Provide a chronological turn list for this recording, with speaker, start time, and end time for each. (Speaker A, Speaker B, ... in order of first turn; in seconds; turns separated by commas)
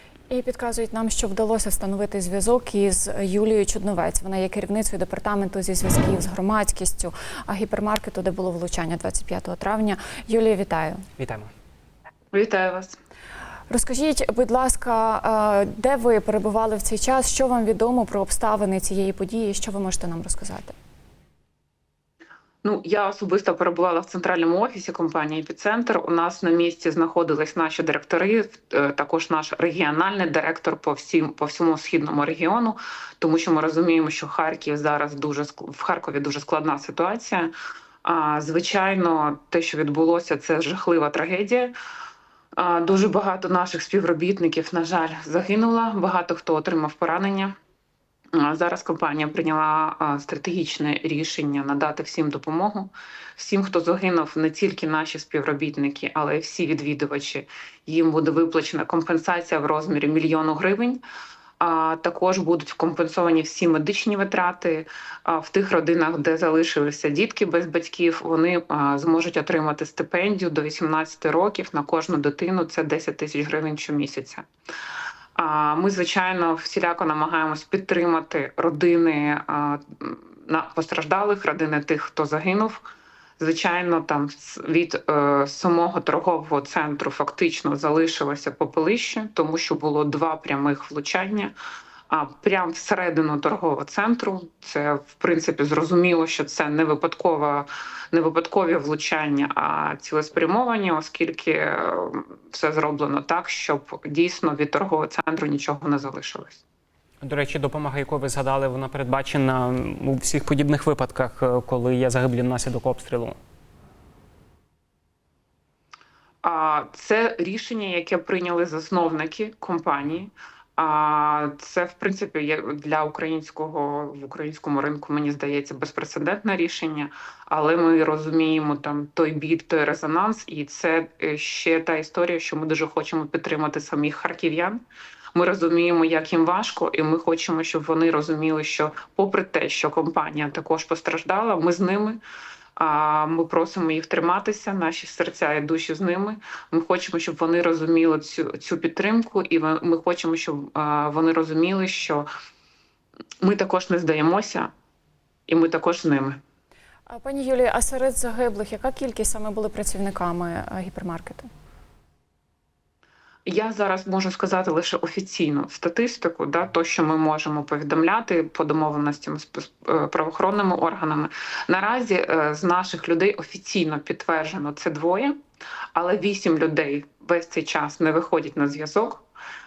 Speaker A: 0.3-11.0, Speaker B: 11.2-11.5, Speaker C: 12.3-13.0, Speaker A: 13.7-20.7, Speaker C: 22.6-37.5, Speaker C: 38.0-41.7, Speaker C: 42.6-47.5, Speaker C: 48.3-61.0, Speaker C: 61.6-74.4, Speaker C: 75.3-91.5, Speaker C: 92.1-106.6, Speaker B: 107.2-113.3, Speaker C: 116.4-134.8, Speaker C: 135.3-142.2, Speaker C: 142.8-152.2, Speaker C: 153.4-154.7, Speaker C: 155.5-156.4, Speaker A: 157.1-161.5, Speaker C: 163.4-175.3, Speaker C: 175.9-179.2